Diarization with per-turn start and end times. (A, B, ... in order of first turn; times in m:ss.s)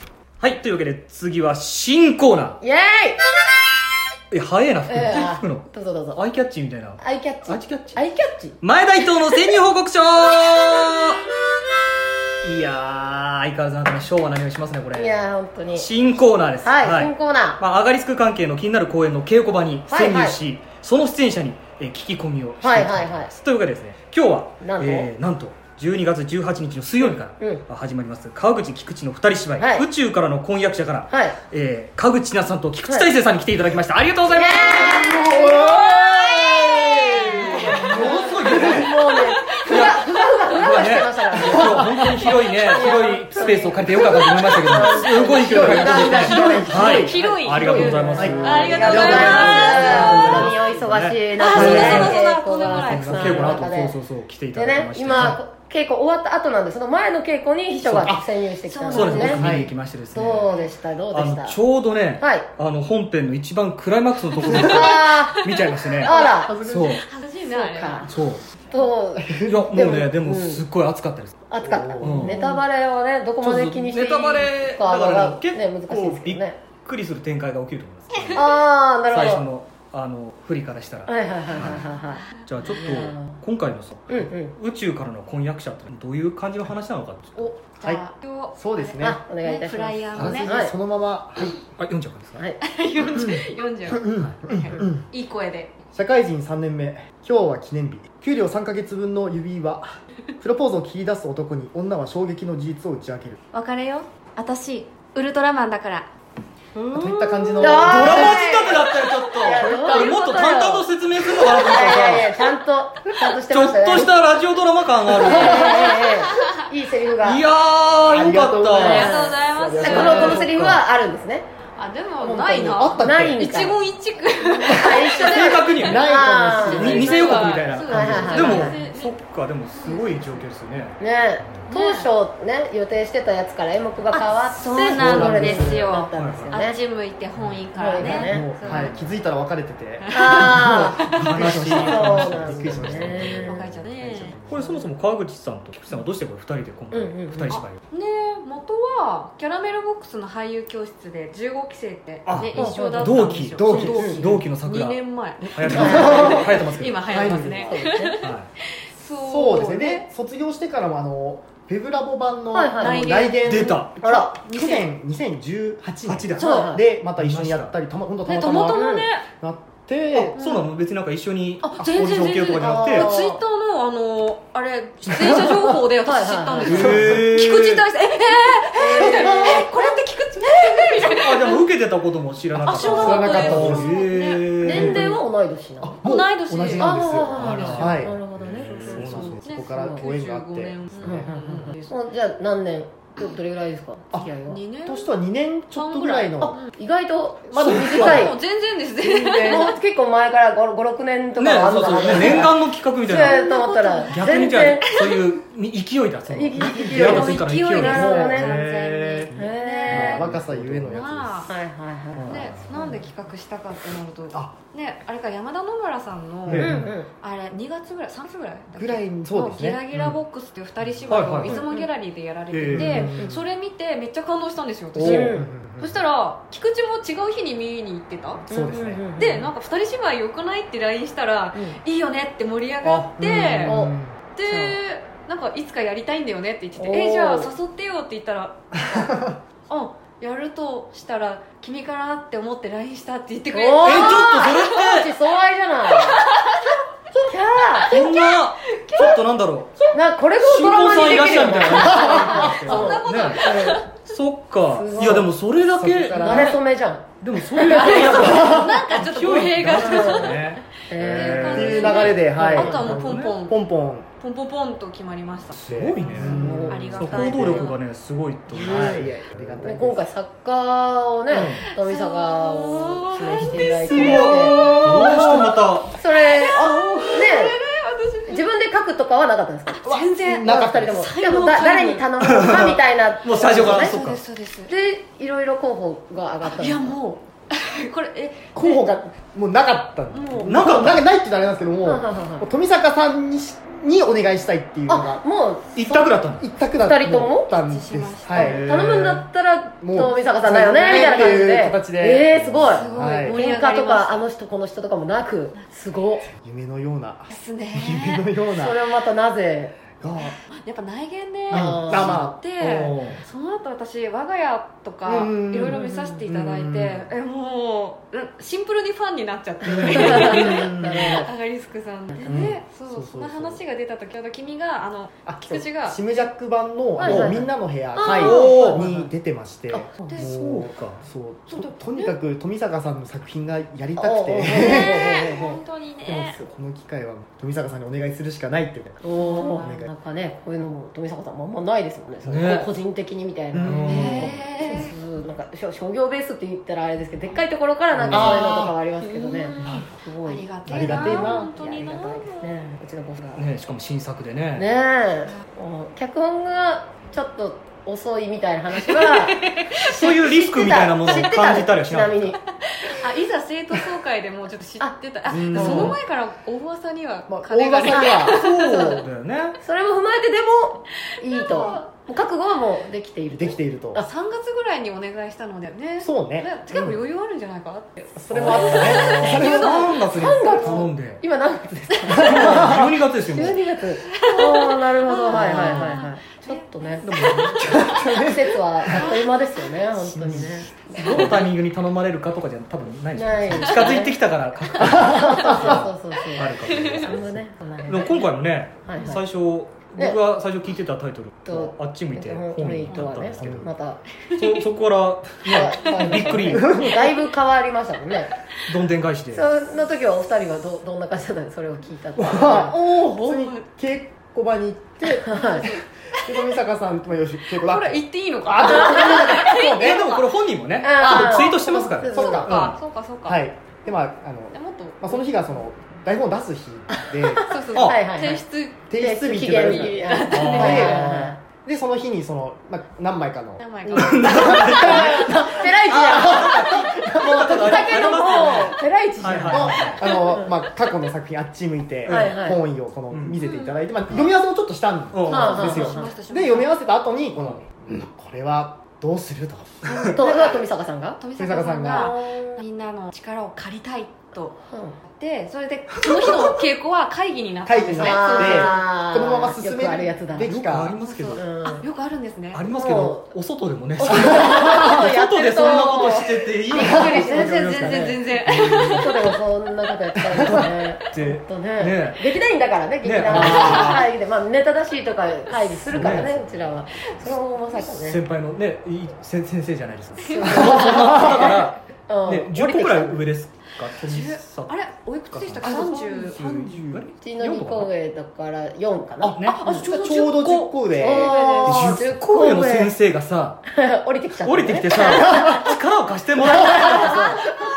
0:00.4-0:02.6 A
0:02.6-0:03.2 B
0:04.3-0:08.0 A
0:04.9-0:06.2 B
0:07.0-0:08.6 B
0:08.6-0:11.2 A
0:12.4-0:35.3 A
0:14.9-0:15.9 B
0:16.6-0:17.6 B
0:19.9-0:20.4 B
0:22.6-0:23.3 B
0:24.6-0:25.1 B
0:27.0-0:27.6 B
0:29.6-0:29.8 B
0:31.1-0:31.4 B
0:34.3-0:46.9 B
0:34.9-0:38.8 C
0:37.1-0:39.0 A
0:39.5-0:39.8 D
0:39.6-0:52.2 A
0:41.4-0:42.0 C
0:44.4-0:45.4 D
0:45.3-0:50.6 C
0:46.4-0:50.5 D
0:47.8-0:53.9 B
0:51.4-0:53.6 D
0:51.5-0:52.2 C
0:52.7-0:53.7 C
0:52.9-0:55.4 A
0:54.5-0:59.4 B
0:57.9-0:58.2 A
0:57.9-0:58.2 C
0:58.6-0:59.5 D
0:58.9-1:00.6 A
0:59.0-0:59.7 C
1:00.1-1:01.6 B
1:01.1-1:07.0 A
1:02.2-1:02.5 B
1:04.4-1:05.4 B
1:04.5-1:08.8 D
1:06.0-1:06.5 B
1:06.1-1:07.0 C
1:07.4-1:08.1 B
1:08.1-1:08.4 A
1:08.7-1:10.6 B
1:09.4-1:11.4 A
1:11.5-1:16.6 B
1:11.6-1:12.5 C
1:12.0-1:12.4 A
1:13.4-1:18.5 A
1:18.2-1:18.4 D
1:18.3-1:19.4 B
1:19.1-1:21.8 A
1:21.1-1:23.4 B
1:22.3-1:22.8 D
1:22.4-1:27.5 A
1:24.1-1:24.6 B
1:27.4-1:30.5 D
1:27.8-1:29.2 C
1:29.0-1:30.7 B
1:30.1-1:31.6 C
1:31.8-1:32.4 A
1:32.6-1:35.8 D
1:33.0-1:35.0 C
1:35.9-1:43.4 C
1:43.5-1:46.1 D
1:46.7-1:48.2 D
1:46.9-1:48.4 C
1:47.6-1:50.9 B
1:47.8-1:52.5 A
1:49.5-1:50.1 D
1:51.4-1:54.1 B
1:53.4-1:55.9 A
1:55.2-1:56.5 D
1:55.2-1:57.4 B
1:57.2-1:59.1 A
1:58.1-2:00.8 C
1:58.8-2:00.5 D
1:58.8-2:01.5 B
1:59.9-2:00.3 A
2:01.8-2:06.0 D
2:02.2-2:03.4 C
2:03.0-2:03.8 B
2:04.5-2:08.8 B
2:04.7-2:05.1 C
2:05.1-2:06.0 A
2:05.8-2:08.5 C
2:06.5-2:09.2 D
2:06.6-2:11.0 A
2:09.7-2:10.4 D
2:11.0-2:16.8 B
2:11.7-2:12.1 D
2:14.1-2:19.0 D
2:14.9-2:16.0 C
2:16.2-2:16.6 A
2:17.7-2:18.5 B
2:18.0-2:24.7 C
2:18.1-2:19.1 A
2:20.0-2:21.3 D
2:20.1-2:23.6 B
2:21.1-2:23.3 A
2:23.1-2:24.4 D
2:24.5-2:27.8 A
2:26.9-2:27.6 B
2:27.5-2:40.1 D
2:32.2-2:35.0 A
2:32.3-2:33.0 C
2:32.6-2:33.1 B
2:33.6-2:34.4 C
2:33.8-2:34.2 B
2:35.4-2:37.8 C
2:35.5-2:37.3 A
2:35.7-2:36.5 B
2:37.6-2:38.2 B
2:38.2-2:38.5 A
2:39.2-2:50.3 C
2:42.5-2:43.3 B
2:42.7-2:44.9 D
2:43.4-2:43.9 A
2:44.0-2:44.4 B
2:46.1-2:47.7 A
2:46.4-2:46.8 B
2:46.4-2:46.7 D
2:48.2-2:49.2 D
2:48.7-2:49.1 B
2:50.3-2:50.6 D
2:50.4-2:53.1 A
2:51.6-3:01.6 D
2:52.5-2:53.4 B
2:56.0-2:57.1 B
2:56.6-2:57.8 A
2:56.7-2:57.2 C
2:58.8-2:59.7 B
2:58.9-2:59.7 C
3:01.0-3:05.2 A
3:02.6-3:05.0 D
3:02.6-3:04.0 C
3:03.2-3:03.8 B
3:04.6-3:06.0 B
3:04.7-3:05.2 C
3:05.8-3:11.6 C
3:06.0-3:07.0 D
3:06.8-3:09.1 B
3:07.3-3:09.4 A
3:08.6-3:12.0 D
3:09.7-3:10.0 B
3:11.0-3:14.6 B
3:14.4-3:15.2 D
3:14.8-3:16.6 C
3:15.7-3:16.7 D
3:16.4-3:18.4 B
3:17.5-3:18.3 C
3:17.7-3:19.7 D
3:17.8-3:18.1 A
3:19.0-3:19.7 C
3:19.4-3:25.0 B
3:21.4-3:23.4 A
3:23.1-3:25.3 D
3:24.1-3:29.4 A
3:26.3-3:28.6 B
3:26.6-3:27.3 C
3:26.6-3:31.5 D
3:27.9-3:28.5 C
3:29.3-3:30.3 B
3:29.9-3:31.5 C
3:30.3-3:30.9 A
3:31.4-3:33.0 B
3:32.2-3:32.6 A
3:32.3-3:48.5 D
3:36.5-3:36.9 C
3:36.5-3:36.8 A
3:36.6-3:37.1 B
3:38.8-3:40.1 C
3:41.1-3:41.6 A
3:41.5-3:41.9 B
3:42.5-3:43.2 A
3:42.7-3:43.4 C
3:45.0-3:46.0 C
3:45.0-3:45.2 A
3:45.0-3:45.5 B
3:48.5-3:49.4 C
3:48.5-3:49.4 B
3:49.0-3:53.8 D
3:52.8-3:54.2 C
3:53.6-3:54.8 B
3:54.3-3:59.1 D
3:56.8-3:57.5 B
3:59.0-3:59.3 C
3:59.7-4:04.6 D
4:03.5-4:06.2 B
4:03.8-4:05.1 A
4:05.9-4:07.2 D
4:07.2-4:07.9 B
4:07.8-4:09.2 D
4:07.8-4:09.8 A
4:09.9-4:13.8 B
4:10.4-4:16.6 A
4:10.6-4:14.0 D
4:11.7-4:12.2 C
4:14.7-4:15.3 B
4:15.0-4:16.6 C
4:16.2-4:18.6 B
4:17.2-4:23.4 A
4:17.5-4:23.6 D
4:19.7-4:22.8 B
4:21.5-4:24.1 C
4:24.2-4:27.8 D
4:25.5-4:29.6 A
4:25.7-4:27.7 C
4:26.2-4:27.6 B
4:28.5-4:30.0 C
4:28.6-4:34.8 B
4:31.3-4:31.6 A
4:31.7-4:35.4 D
4:33.5-4:35.6 C
4:33.8-4:35.9 A
4:35.9-4:37.6 B
4:36.3-4:38.5 D
4:38.3-4:39.8 B
4:39.7-4:42.1 D
4:39.8-4:41.0 C
4:40.4-4:43.9 B
4:42.2-4:44.2 A
4:43.4-4:44.7 D
4:44.7-4:47.0 B
4:46.4-4:48.8 D
4:48.5-4:55.2 C
4:50.1-4:50.6 D
4:50.5-4:51.0 A
4:51.8-4:52.5 B
4:54.9-4:56.1 B
4:55.7-4:56.4 A
4:55.7-4:58.9 C
4:56.8-4:57.5 B
4:57.5-4:58.7 D
4:58.3-5:06.3 B
4:58.4-4:59.2 A
4:59.8-5:03.4 C
5:00.8-5:01.4 D
5:02.6-5:04.2 D
5:06.4-5:08.8 C
5:07.3-5:08.3 D
5:08.5-5:09.8 B
5:10.0-5:10.4 C
5:10.2-5:26.0 D
5:11.5-5:12.6 C
5:11.5-5:12.2 B
5:12.6-5:13.2 A
5:15.0-5:17.1 C
5:19.7-5:21.2 C
5:19.8-5:21.3 B
5:22.2-5:23.6 C
5:25.2-5:35.1 C
5:27.0-5:28.8 B
5:27.0-5:27.3 A
5:28.0-5:28.8 D
5:28.1-5:29.1 A
5:29.7-5:30.0 B
5:30.1-5:31.0 A
5:31.5-5:32.1 D
5:34.0-5:35.6 B
5:34.4-5:36.4 D
5:36.0-5:39.0 C
5:39.0-5:53.4 B
5:39.2-5:39.7 D
5:39.6-5:39.9 C
5:42.2-5:42.7 A
5:43.5-5:44.3 C
5:43.6-5:44.4 A
5:43.9-5:45.0 D
5:48.0-5:48.3 A
5:48.0-5:48.7 C
5:49.0-5:52.5 D
5:50.6-5:51.5 C
5:53.4-5:54.7 A
5:54.6-6:02.4 B
5:58.9-5:59.7 D
5:59.8-6:02.4 A
6:02.8-6:09.0 D
6:05.3-6:06.0 C
6:05.5-6:05.9 B
6:05.5-6:06.0 A
6:07.3-6:08.4 C
6:08.2-6:09.6 A
6:08.6-6:09.0 B
6:09.6-6:14.0 B
6:11.3-6:11.8 D
6:13.3-6:14.0 C
6:13.9-6:20.7 D
6:16.0-6:17.0 C
6:18.2-6:19.9 C
6:18.3-6:21.2 A
6:18.4-6:27.1 B
6:22.1-6:23.6 A
6:22.3-6:22.8 C
6:24.1-6:27.8 D
6:25.3-6:25.8 A
6:27.0-6:28.0 A
6:27.6-6:29.1 C
6:28.1-6:31.4 B
6:28.9-6:29.3 D
6:30.1-6:30.7 C
6:30.2-6:43.7 A
6:33.1-6:34.2 B
6:33.6-6:33.9 D
6:34.7-6:38.3 B
6:34.8-6:35.8 C
6:34.9-6:35.6 D
6:36.7-6:37.1 D
6:38.8-6:39.2 B
6:41.4-6:44.0 B
6:43.4-6:43.7 C
6:44.3-6:44.6 D
6:44.3-6:46.7 A
6:45.4-6:48.3 B
6:46.0-6:47.0 D
6:46.5-6:47.0 C
6:48.7-6:49.4 A
6:49.3-6:52.8 B
6:52.2-7:00.1 C
6:52.5-6:53.6 D
6:55.2-6:55.7 B
6:55.4-6:56.5 D
6:57.5-7:00.3 D
6:59.0-6:59.2 B
6:59.7-7:02.8 A
7:00.8-7:02.5 B
7:01.0-7:01.4 C
7:02.1-7:07.5 C
7:02.1-7:03.4 D
7:04.5-7:05.3 D
7:07.4-7:08.8 D
7:07.7-7:08.4 B
7:08.9-7:18.0 C
7:08.9-7:11.4 B
7:09.5-7:11.1 D
7:10.3-7:11.0 A
7:13.6-7:15.1 D
7:13.8-7:20.6 B
7:13.9-7:20.0 A
7:19.4-7:30.2 C
7:22.1-7:22.6 B
7:23.1-7:23.4 A
7:23.4-7:24.3 D
7:25.1-7:25.8 A
7:25.3-7:26.1 B
7:25.4-7:26.8 D
7:29.8-7:30.1 A
7:30.0-7:30.6 D
7:30.1-7:31.2 B
7:31.2-7:38.9 D
7:31.4-7:32.2 C
7:31.9-7:32.6 B
7:34.7-7:35.0 B
7:37.6-7:41.0 C
7:38.0-7:40.5 B
7:40.4-7:41.4 A
7:41.0-7:42.7 D
7:41.3-7:41.8 B
7:42.5-7:49.0 A
7:42.7-7:43.3 B
7:44.0-7:48.2 B
7:44.1-7:44.9 C
7:46.8-7:49.4 D
7:48.5-7:49.0 C
7:48.9-7:58.2 B
7:50.3-7:50.6 C
7:51.1-7:52.2 A
7:53.0-7:54.1 A
7:53.3-7:54.0 C
7:53.5-7:53.9 D
7:55.9-7:56.4 A
7:55.9-7:56.6 C
7:57.8-8:04.8 A
8:00.3-8:03.3 B
8:00.3-8:01.4 D
8:04.0-8:06.4 D
8:05.3-8:07.9 A
8:05.6-8:07.1 C
8:07.2-8:09.8 B
8:09.2-8:11.9 C
8:09.2-8:10.7 A
8:09.6-8:10.5 D
8:10.9-8:12.9 B
8:11.1-8:11.8 D
8:11.6-8:13.6 A
8:13.6-8:15.7 B
8:14.4-8:17.5 A
8:16.4-8:17.5 B
8:16.7-8:17.6 D